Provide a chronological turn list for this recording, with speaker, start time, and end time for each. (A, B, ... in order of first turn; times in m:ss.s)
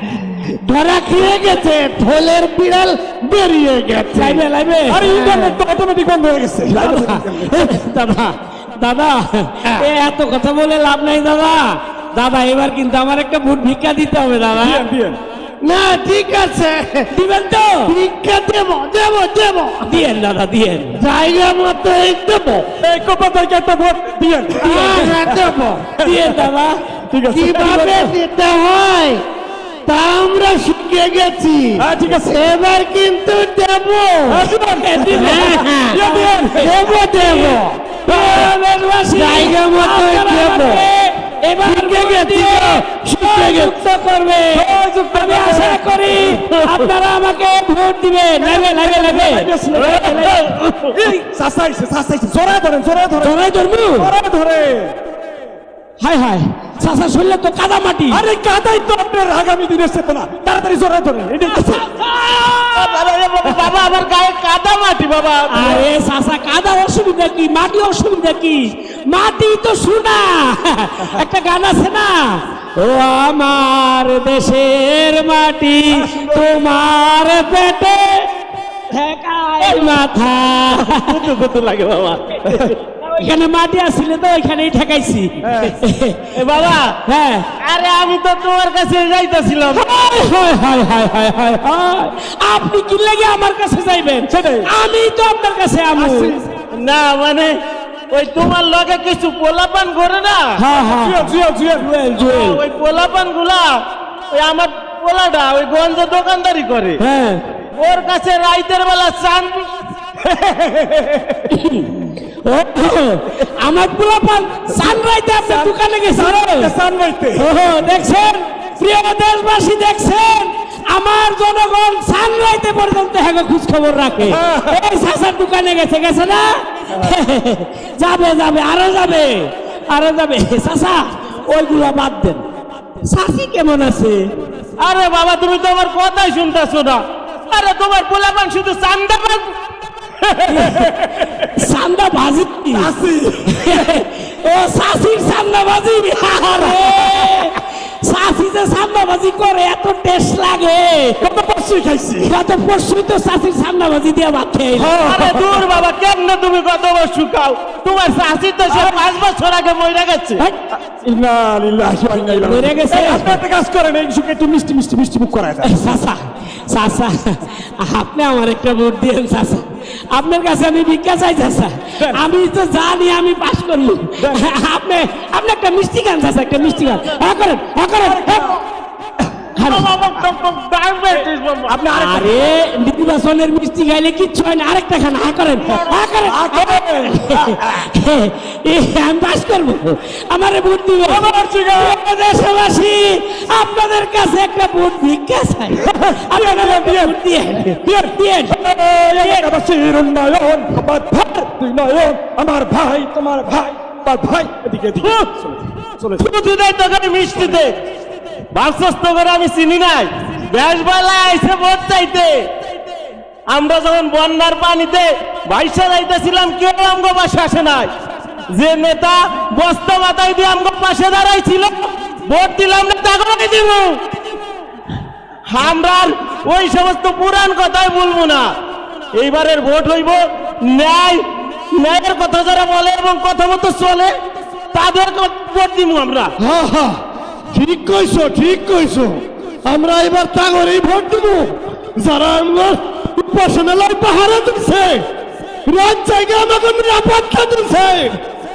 0:00.2-0:04.4 A
0:04.1-0:05.6 B
0:04.9-0:07.8 C
0:06.8-0:14.8 B
0:14.6-0:15.2 C
0:15.6-0:17.1 A
0:17.1-0:17.9 B
0:17.8-0:20.0 A
0:19.9-0:21.0 B
0:20.9-0:22.6 A
0:22.8-0:25.5 C
0:24.6-0:26.0 A
0:24.6-0:25.2 B
0:26.0-0:26.8 B
0:26.0-0:26.4 C
0:27.1-0:28.0 C
0:27.3-0:29.2 A
0:27.6-0:28.0 B
0:29.8-0:34.5 A
0:31.8-0:32.4 C
0:34.3-0:37.3 C
0:34.7-0:36.3 B
0:35.1-0:37.9 A
0:36.9-0:37.5 B
0:38.0-0:51.2 B
0:38.1-0:38.5 C
0:39.1-0:40.9 A
0:41.6-0:43.7 A
0:44.5-0:46.4 C
0:48.4-0:50.4 C
0:49.7-0:50.4 D
0:50.9-0:53.4 C
0:53.2-0:54.1 B
0:54.0-0:55.0 C
0:56.0-0:58.2 B
0:58.1-1:01.8 C
1:01.5-1:03.1 B
1:02.6-1:05.8 D
1:03.4-1:03.7 C
1:05.5-1:18.3 B
1:15.9-1:16.5 C
1:18.9-1:21.2 B
1:20.7-1:22.8 D
1:23.1-1:26.3 B
1:25.4-1:25.8 C
1:26.3-1:26.9 D
1:27.0-1:27.5 B
1:27.6-1:30.0 D
1:29.7-1:36.4 B
1:34.3-1:34.7 C
1:36.0-1:36.4 C
1:36.7-1:40.5 D
1:40.6-1:42.6 B
1:40.9-1:41.9 C
1:42.1-1:47.0 D
1:47.0-1:47.4 B
1:47.8-1:49.7 D
1:50.2-1:51.4 C
1:51.5-1:56.7 B
1:55.4-1:57.5 C
1:57.3-2:12.4 B
2:04.2-2:04.8 C
2:13.0-2:14.3 B
2:14.8-2:19.5 D
2:20.2-2:21.5 C
2:20.4-2:22.9 B
2:22.7-2:23.9 C
2:23.5-2:31.2 B
2:26.5-2:27.4 C
2:31.2-2:32.3 C
2:32.2-2:35.0 B
2:34.7-2:35.8 C
2:35.0-2:40.4 D
2:38.7-2:39.0 C
2:40.8-2:45.7 C
2:42.3-2:43.4 B
2:45.6-2:58.6 B
2:52.0-2:52.2 C
2:54.2-2:54.4 C
2:58.0-2:58.6 C
2:59.6-2:59.9 B
2:59.6-3:01.8 D
3:01.7-3:02.3 C
3:01.9-3:11.2 B
3:06.2-3:07.8 C
3:11.0-3:12.0 C
3:11.8-3:18.6 B
3:15.8-3:26.3 C
3:19.2-3:19.5 B
3:25.0-3:25.3 D
3:26.2-3:27.8 D
3:27.3-3:27.6 C
3:28.5-3:32.5 D
3:33.5-3:37.9 D
3:38.5-3:44.0 D
3:45.5-3:48.5 D
3:49.1-3:54.2 D
3:54.7-3:56.3 D
3:56.4-3:57.0 A
3:57.5-4:05.0 A
4:05.6-4:08.2 A